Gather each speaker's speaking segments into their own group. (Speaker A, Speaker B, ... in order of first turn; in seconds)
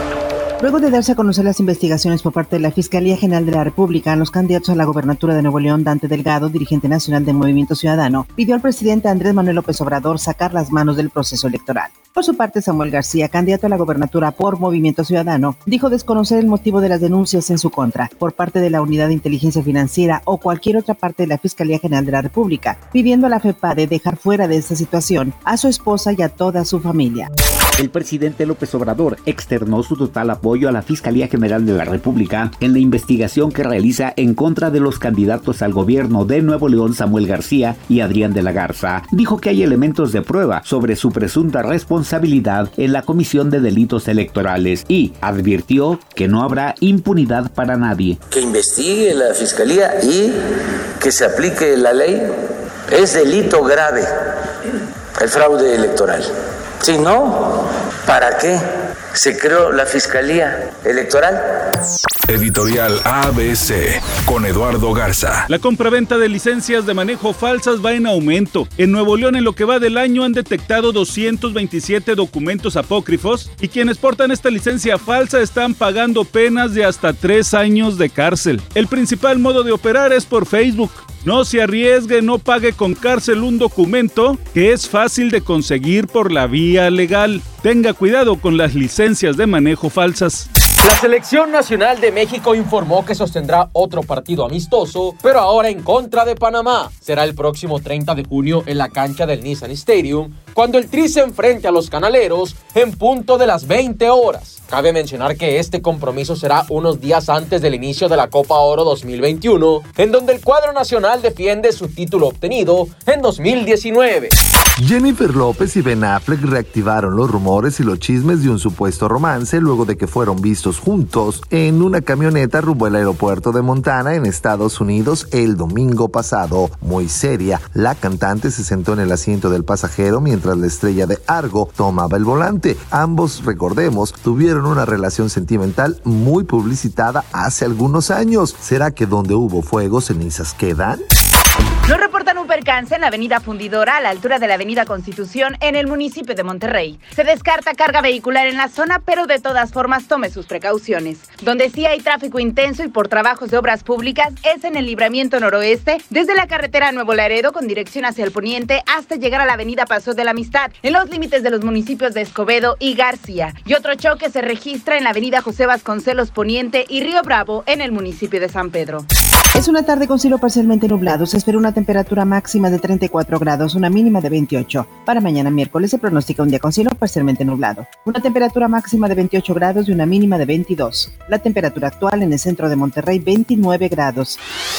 Speaker A: 0.6-27.3, 169.5-184.4
Speaker B: 27.8-48.2
Speaker C: 48.3-50.4, 51.0-52.3, 52.9-54.1, 55.2-61.4
Speaker D: 62.3-65.5
Speaker E: 65.5-90.5
Speaker F: 90.8-114.3
Speaker G: 114.8-141.0
Speaker H: 141.9-169.1